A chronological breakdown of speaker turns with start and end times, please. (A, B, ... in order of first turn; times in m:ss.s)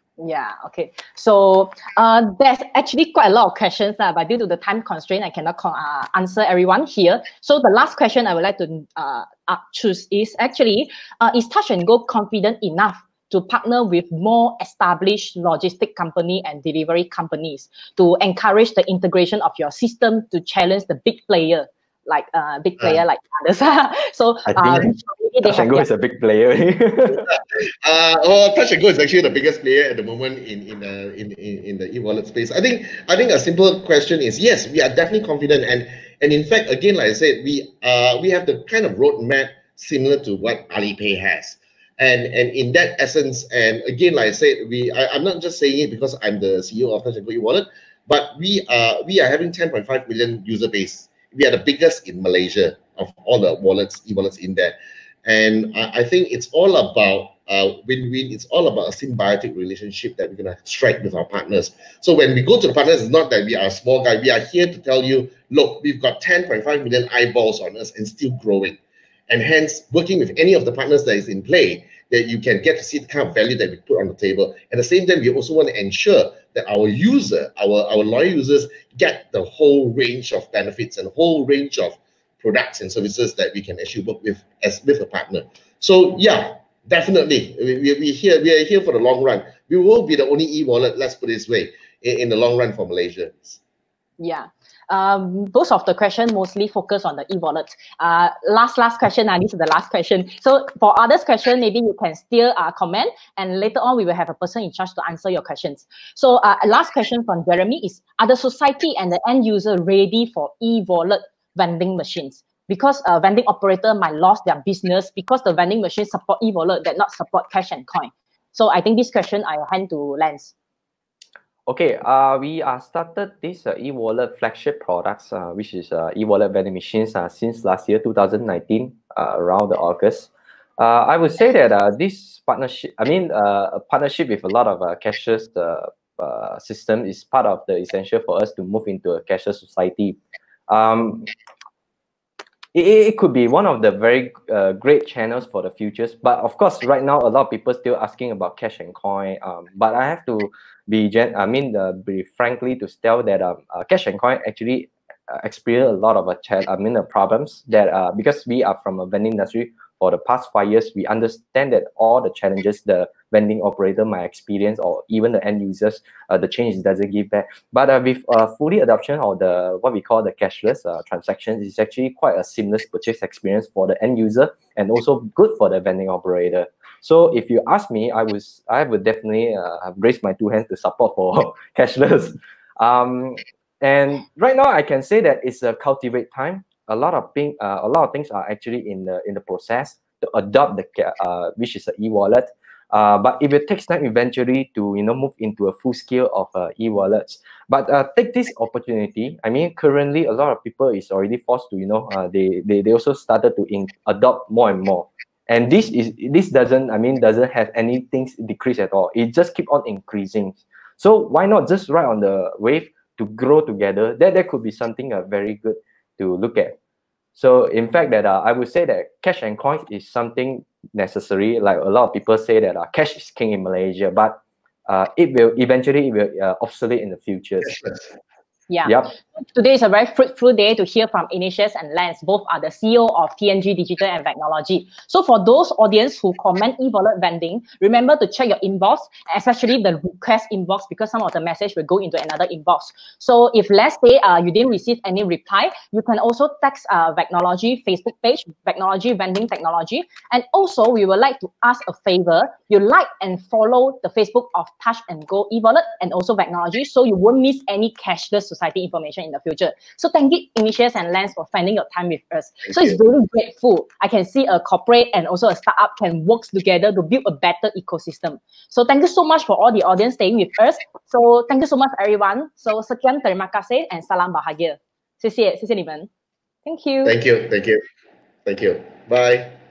0:00.2-0:25.9 A
0:24.5-0:27.3 B
0:27.1-1:08.8 C
1:09.3-1:33.6 C
1:34.2-2:00.5 A
2:01.7-2:20.2 B
2:20.7-2:21.3 B
2:22.7-3:36.8 B
3:37.4-3:47.8 B
3:47.7-3:48.0 C
3:48.7-4:36.1 A
3:48.8-3:49.1 B
4:22.7-4:23.0 C
4:36.6-4:37.2 A
4:37.0-4:37.8 C
4:38.4-4:39.6 C